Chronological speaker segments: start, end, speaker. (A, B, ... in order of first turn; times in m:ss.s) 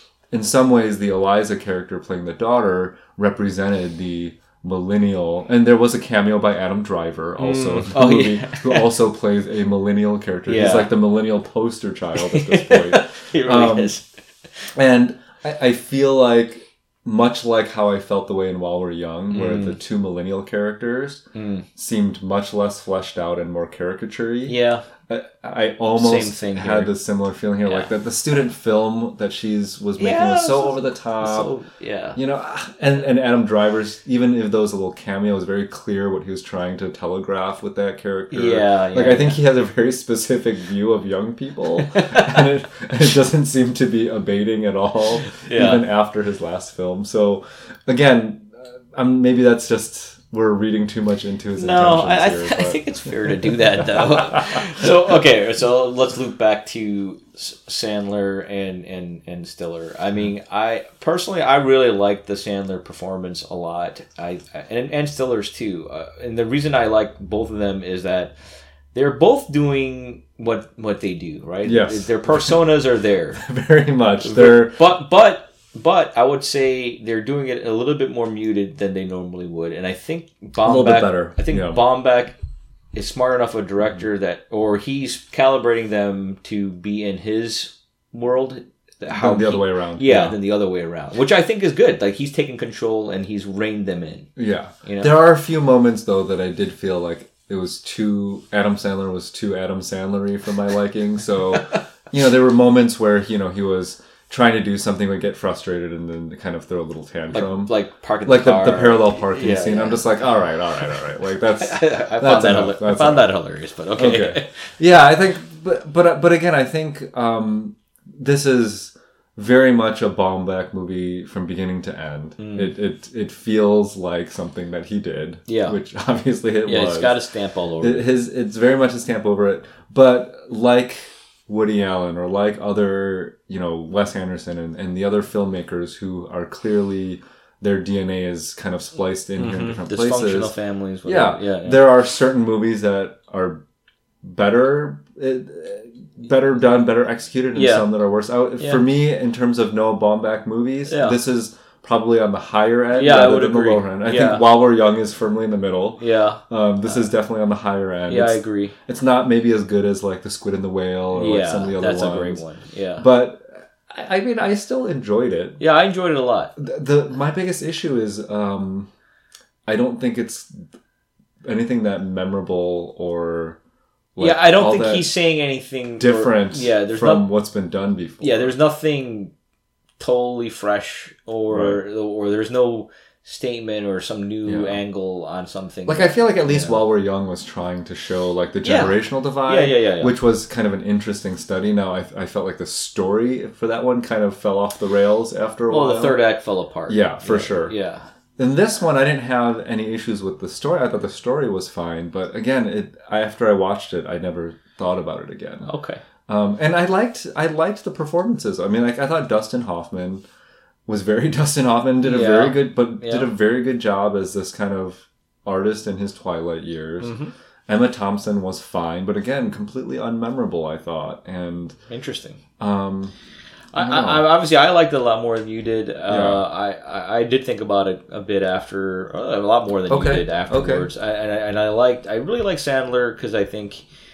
0:00.3-0:13.9 A
0:07.4-0:08.9 B
0:10.5-0:10.9 B
0:12.2-0:14.7 B
0:14.7-0:31.5 A
0:19.3-0:19.8 B
0:21.4-0:21.7 B
0:24.5-0:24.9 B
0:26.0-0:26.9 B
0:27.6-0:27.9 B
0:30.0-0:32.2 B
0:32.2-0:52.9 A
0:38.3-0:39.4 B
0:41.8-0:42.5 B
0:45.4-0:45.8 B
0:51.6-1:08.4 B
0:53.8-0:54.9 A
1:08.9-1:13.4 B
1:11.6-1:12.6 A
1:13.4-1:14.8 A
1:14.2-1:22.4 B
1:20.6-1:21.8 A
1:22.9-1:34.3 B
1:29.1-1:30.4 A
1:34.4-1:53.3 A
1:34.8-1:35.1 B
1:47.3-1:50.1 B
1:51.6-1:54.7 B
1:54.0-2:07.2 A
2:02.4-2:02.7 B
2:05.5-2:05.8 B
2:06.6-2:08.1 B
2:07.8-2:23.6 A
2:19.4-2:21.9 B
2:24.2-2:42.4 A
2:27.5-2:27.9 B
2:30.9-2:31.2 B
2:32.9-2:34.5 B
2:36.0-2:37.0 B
2:38.1-2:38.8 B
2:41.1-2:43.1 B
2:43.0-2:45.6 A
2:45.6-2:46.5 B
2:46.6-2:48.9 A
2:49.7-2:50.7 A
2:51.4-2:53.6 A
2:54.2-2:55.1 A
2:54.2-2:57.2 B
2:56.0-2:58.5 A
2:58.2-2:59.3 B
3:00.0-3:06.8 B
3:01.5-3:01.8 A
3:04.4-3:04.8 A
3:05.9-3:16.2 A
3:08.6-3:10.2 B
3:15.7-3:18.1 B
3:16.9-3:17.8 A
3:18.4-3:25.7 A
3:25.6-3:26.0 B
3:26.3-3:30.3 A
3:30.9-3:37.2 A
3:32.0-3:33.3 B
3:37.0-3:37.3 B
3:37.7-3:41.8 A
3:41.9-3:42.4 B
3:42.6-3:43.2 A
3:43.7-3:53.8 B
3:43.8-3:44.3 A
3:46.1-3:46.4 A
3:49.9-3:50.9 A